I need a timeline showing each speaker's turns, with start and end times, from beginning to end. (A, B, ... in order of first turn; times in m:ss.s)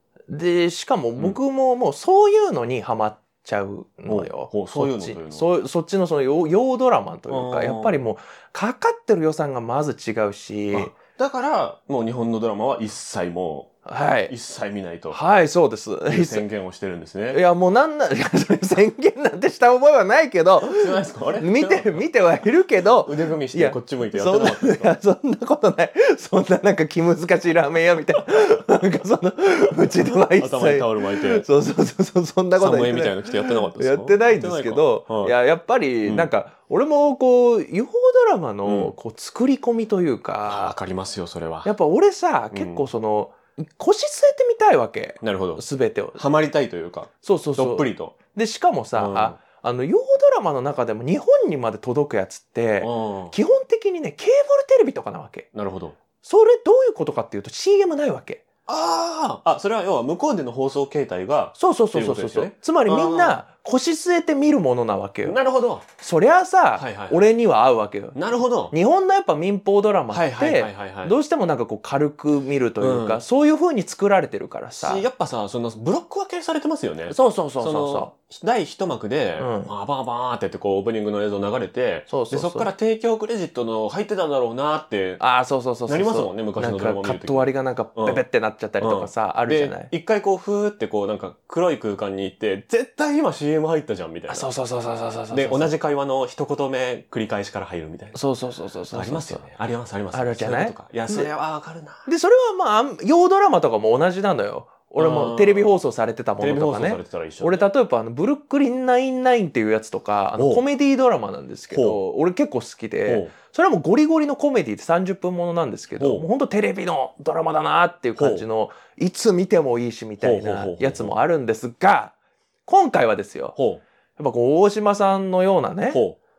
0:00.3-0:11.0 A
0:04.1-0:05.5 B
0:07.3-0:08.1 B
0:10.7-0:13.7 B
0:13.9-0:14.3 A
0:14.3-0:15.2 B
0:15.1-0:16.5 A
0:16.1-0:17.4 B
0:17.3-0:40.8 A
0:20.6-0:22.0 B
0:22.9-0:24.9 B
0:30.4-0:31.5 B
0:32.6-0:35.3 B
0:36.0-0:36.3 B
0:38.6-0:39.0 B
0:40.5-0:41.7 B
0:41.6-0:46.2 A
0:42.5-0:42.8 B
0:45.2-0:45.6 B
0:46.2-0:48.2 B
0:47.2-0:55.5 A
0:49.0-0:49.4 B
0:52.8-0:53.4 B
0:55.5-0:56.0 B
0:56.2-0:58.4 A
0:58.7-1:03.4 B
1:01.6-1:05.4 A
1:05.2-1:05.8 B
1:06.0-1:08.2 A
1:06.8-1:07.3 B
1:08.2-1:08.8 B
1:08.7-1:15.1 A
1:10.1-1:11.2 B
1:12.8-1:13.2 B
1:14.8-1:25.2 B
1:17.1-1:18.1 A
1:19.4-1:19.7 A
1:22.1-1:22.7 A
1:25.2-1:29.9 A
1:25.9-1:28.2 B
1:28.8-1:34.5 B
1:34.3-1:35.7 A
1:35.3-1:38.2 B
1:38.1-1:39.5 A
1:38.9-1:42.1 B
1:40.1-1:41.3 A
1:42.0-2:02.2 A
1:45.0-1:45.7 B
1:46.4-1:47.6 B
1:50.4-1:50.6 B
1:51.7-1:52.0 B
1:53.1-1:53.3 B
1:56.0-1:56.3 B
1:58.2-1:58.5 B
2:00.2-2:01.2 B
2:02.7-2:03.6 A
2:03.6-2:03.8 B
2:04.2-2:06.0 A
2:05.9-2:06.2 B